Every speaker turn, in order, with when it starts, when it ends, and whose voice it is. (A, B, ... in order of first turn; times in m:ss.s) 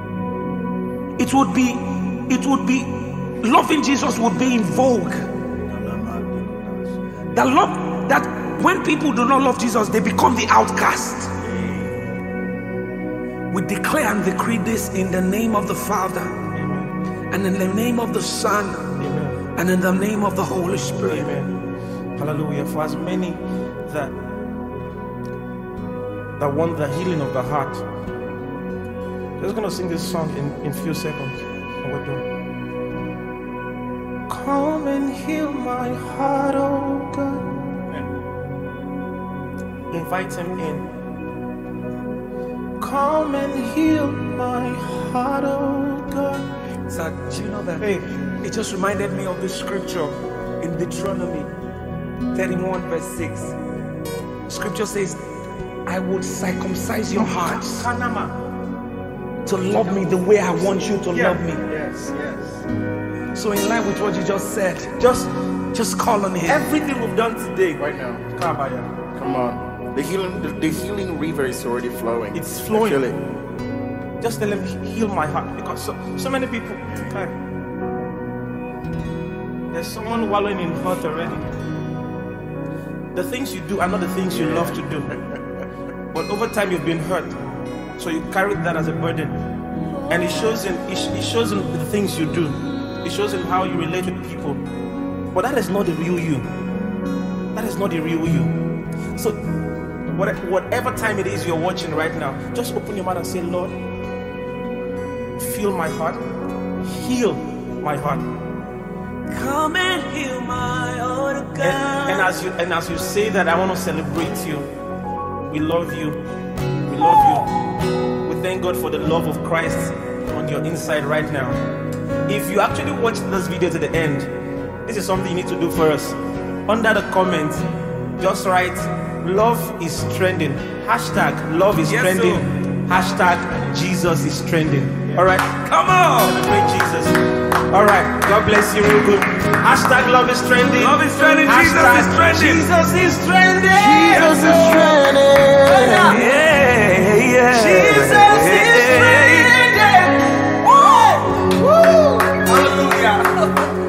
0:01.2-0:05.3 A
0:05.8-0:06.6 B
0:07.3-0:11.3 A
0:13.5-0:16.4 A
0:16.5-0:16.9 C
0:17.3-0:19.0 A
0:19.0-0:19.4 C
0:19.6-0:21.3 A
0:21.1-0:21.5 C
0:22.2-0:24.2 C
0:26.4-0:27.8 C
0:29.4-0:32.2 C
0:34.3-0:37.4 C
0:39.9-0:40.9 C
0:42.8-0:46.4 C
0:46.9-0:51.5 A
0:47.8-0:48.1 C
0:52.3-0:53.6 A
0:54.5-0:55.2 A
0:55.8-0:57.9 A
0:57.1-0:58.3 C
0:59.4-1:01.6 A
1:01.1-1:01.4 C
1:01.7-1:02.4 B
1:03.3-1:05.0 A
1:05.0-1:05.3 C
1:05.7-1:06.7 A
1:06.4-1:08.9 C
1:07.8-1:08.2 B
1:09.1-1:13.2 B
1:12.3-1:13.1 C
1:14.2-1:17.3 C
1:19.7-1:21.5 C
1:23.1-1:25.2 C
1:26.1-1:27.4 C
1:28.0-1:29.4 C
1:30.1-1:34.6 C
1:35.3-1:36.5 C
1:37.5-1:38.6 C
1:40.1-1:43.8 C
1:45.4-1:46.2 C
1:46.8-1:48.2 C
1:49.3-1:52.3 A
1:51.6-1:54.7 C
1:55.5-1:56.2 C
1:56.8-1:57.5 C
1:58.2-2:01.6 C
2:02.3-2:04.3 C
2:04.8-2:07.7 C
2:08.2-2:15.6 C
2:11.8-2:12.4 A
2:15.7-2:16.4 A
2:16.2-2:17.2 C
2:17.7-2:24.9 C
2:20.8-2:22.7 A
2:23.7-2:26.2 B
2:25.6-2:26.2 C
2:26.1-2:29.7 A
2:27.5-2:31.6 C
2:31.7-2:32.5 B
2:32.5-2:33.2 C